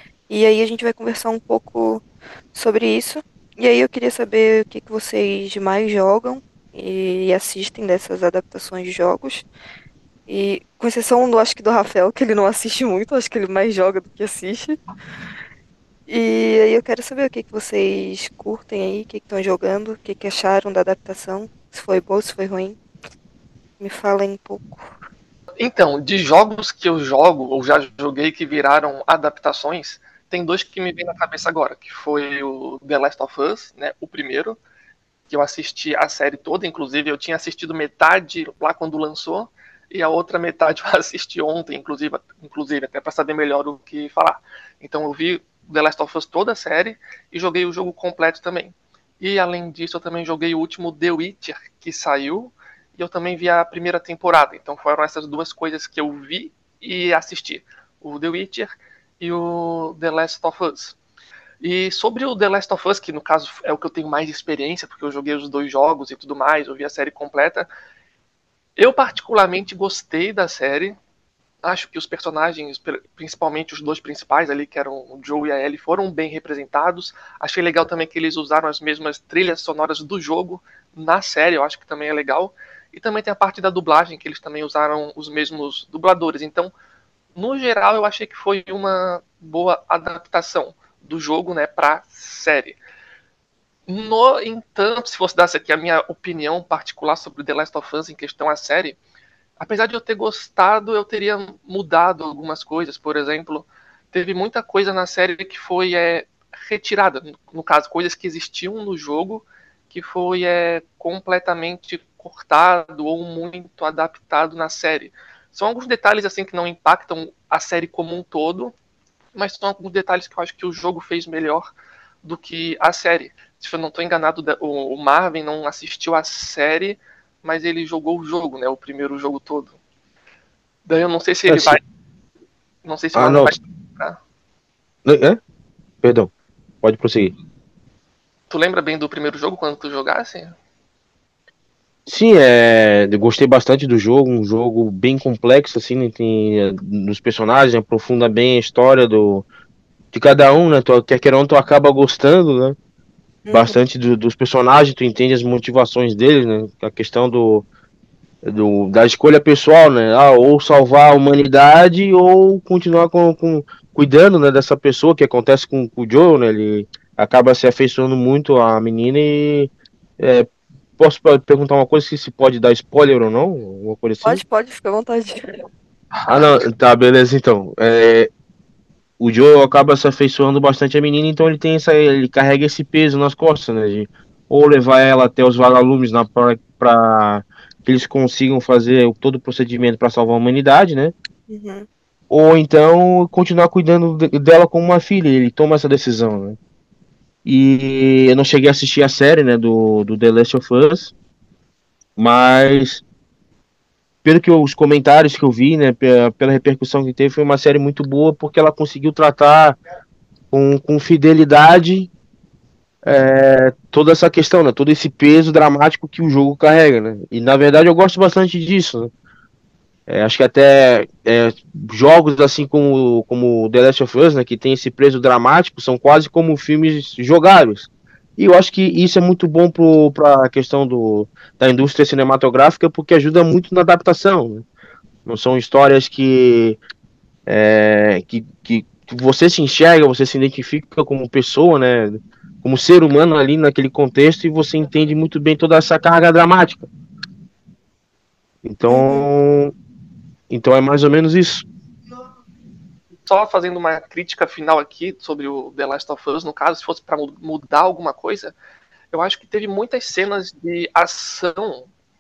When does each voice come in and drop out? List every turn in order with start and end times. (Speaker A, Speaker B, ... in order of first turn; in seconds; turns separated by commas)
Speaker A: 0.3-9.4, Speaker A: 10.3-14.8, Speaker A: 16.1-22.8, Speaker A: 23.8-24.9, Speaker B: 25.6-34.6, Speaker B: 35.3-61.0, Speaker B: 61.6-67.7, Speaker B: 68.8-71.0, Speaker B: 71.6-86.7, Speaker B: 87.3-92.8, Speaker B: 93.9-99.0, Speaker B: 99.6-118.7, Speaker B: 119.3-121.7, Speaker B: 122.2-129.8, Speaker B: 130.8-131.8, Speaker C: 131.5-131.8, Speaker B: 132.8-134.2, Speaker C: 133.1-133.5, Speaker C: 135.0-135.4, Speaker C: 136.0-136.3, Speaker C: 136.8-137.3, Speaker B: 138.5-140.5, Speaker C: 142.1-149.4, Speaker C: 150.1-152.8, Speaker A: 153.4-153.7, Speaker C: 153.5-157.6, Speaker C: 158.4-174.4, Speaker A: 174.2-175.6, Speaker C: 176.2-178.3, Speaker C: 179.2-191.1, Speaker A: 191.5-191.9, Speaker C: 192.3-196.6, Speaker C: 197.4-201.1, Speaker C: 202.2-203.0, Speaker C: 204.2-209.8, Speaker C: 210.5-212.1, Speaker C: 213.0-219.1, Speaker C: 220.1-234.6, Speaker C: 235.2-236.8, Speaker C: 237.5-246.9, Speaker C: 248.6-249.7, Speaker A: 248.9-249.2, Speaker C: 250.5-251.6, Speaker B: 253.2-258.5, Speaker B: 259.1-261.9